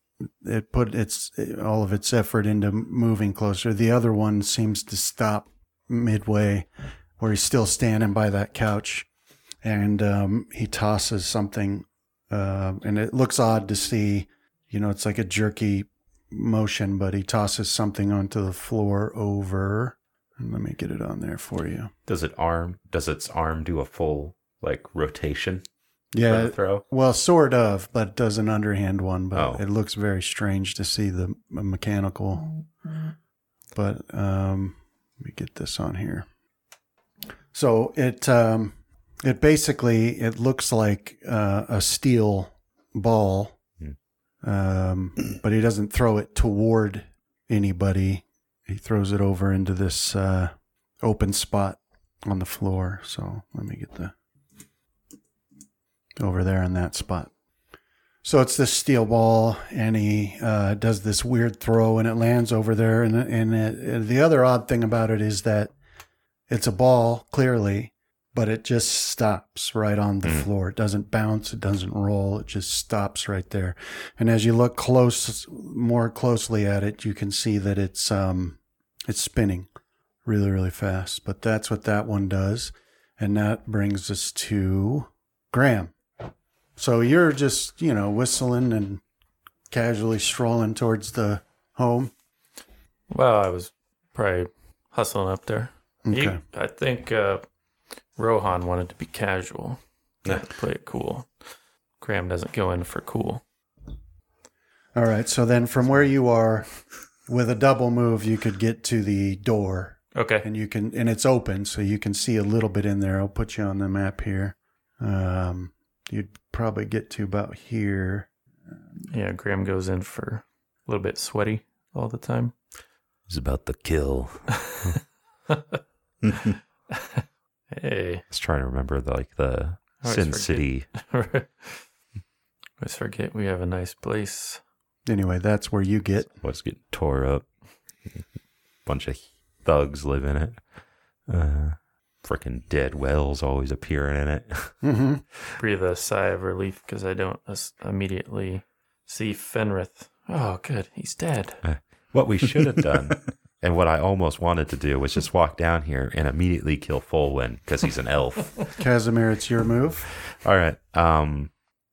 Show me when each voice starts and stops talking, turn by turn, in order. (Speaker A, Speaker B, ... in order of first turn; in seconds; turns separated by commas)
Speaker A: 0.4-9.1, Speaker A: 9.6-21.9, Speaker B: 22.1-25.6, Speaker A: 26.1-32.6, Speaker B: 26.3-26.8, Speaker B: 29.3-29.6, Speaker A: 33.8-36.3, Speaker A: 37.5-43.6, Speaker A: 44.4-54.1, Speaker A: 56.2-57.3, Speaker A: 58.2-65.7, Speaker A: 66.5-79.7, Speaker A: 80.2-86.0, Speaker A: 86.8-89.0, Speaker A: 89.7-92.1, Speaker C: 93.1-97.4, Speaker A: 96.1-96.4, Speaker C: 98.2-101.3, Speaker C: 102.0-103.4, Speaker A: 105.0-106.7, Speaker A: 107.3-118.3, Speaker C: 110.1-110.5, Speaker C: 119.1-122.5, Speaker B: 123.3-125.0, Speaker C: 124.7-124.9, Speaker C: 125.5-125.8, Speaker C: 126.9-128.2, Speaker B: 128.3-130.9, Speaker C: 130.0-131.9, Speaker C: 132.8-134.6, Speaker A: 135.1-136.3, Speaker B: 136.4-137.5, Speaker B: 138.9-140.6, Speaker B: 141.3-144.8, Speaker A: 144.8-145.2, Speaker C: 145.6-151.6, Speaker B: 151.6-158.7, Speaker A: 158.8-160.1, Speaker B: 160.2-161.5